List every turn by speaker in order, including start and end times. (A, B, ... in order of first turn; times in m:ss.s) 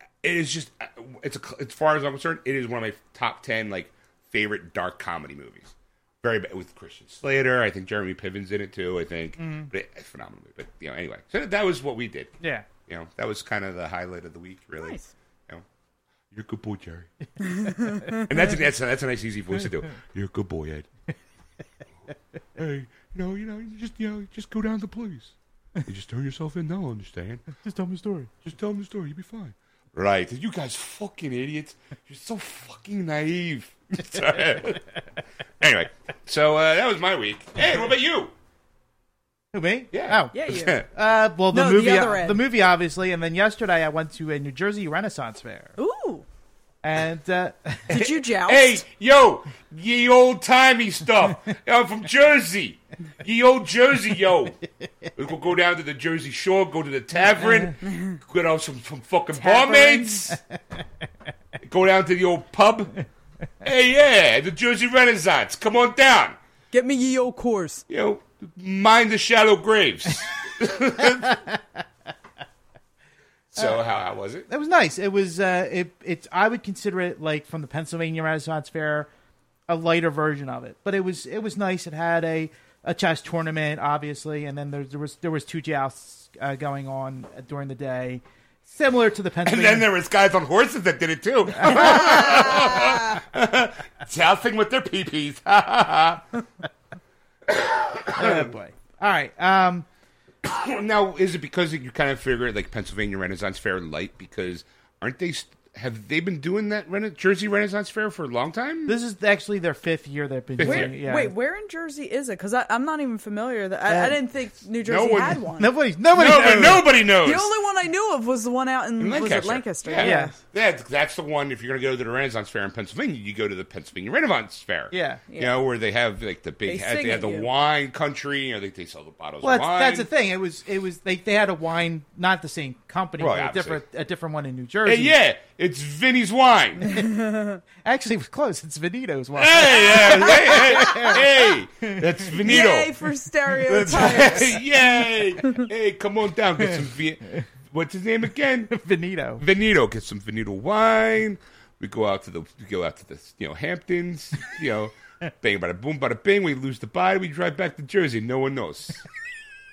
0:00.2-0:15.6 A
0:09.4-0:09.7 B
0:12.4-0:12.7 B
0:14.8-0:15.1 C
0:16.3-0:17.1 A
0:17.6-0:18.2 C
0:18.1-0:20.9 A
0:22.6-0:27.4 A
0:27.5-0:28.4 B
0:28.4-0:35.0 A
0:35.6-0:38.3 A
0:39.5-0:45.7 B
0:39.9-0:40.8 A
0:40.3-0:40.8 C
0:41.5-0:42.4 C
0:45.8-0:46.2 C
0:46.8-0:48.1 B
0:47.9-0:48.8 C
0:48.5-0:54.6 A
0:55.2-1:00.4 A
0:57.8-0:58.2 C
0:59.4-1:00.2 C
1:01.6-1:03.0 A
1:03.6-1:06.4 A
1:06.7-1:07.8 C
1:07.9-1:11.4 A
1:13.5-1:14.5 A
1:14.5-1:19.1 B
1:19.7-1:29.9 B
1:29.4-1:36.2 A
1:31.6-1:32.1 B
1:37.5-1:38.5 A
1:38.2-1:39.9 B
1:40.4-1:49.0 A
1:48.9-1:51.3 B
1:50.6-1:50.9 A
1:50.6-1:55.7 C
1:53.9-1:54.2 B
1:54.8-1:55.4 A
1:55.6-1:56.9 B
1:56.1-1:57.5 A
1:57.2-2:00.4 C
1:59.0-2:10.1 A
2:00.0-2:00.4 B
2:04.9-2:05.2 B
2:05.3-2:05.6 C
2:06.6-2:07.5 C
2:09.4-2:15.1 B
2:13.2-2:13.8 A
2:14.8-2:16.9 A
2:16.9-2:17.6 C
2:17.8-2:21.2 B
2:19.4-2:22.9 A
2:20.1-2:21.2 C
2:22.4-2:24.6 C
2:23.6-2:28.8 A
2:28.7-2:29.4 B
2:29.4-2:39.1 A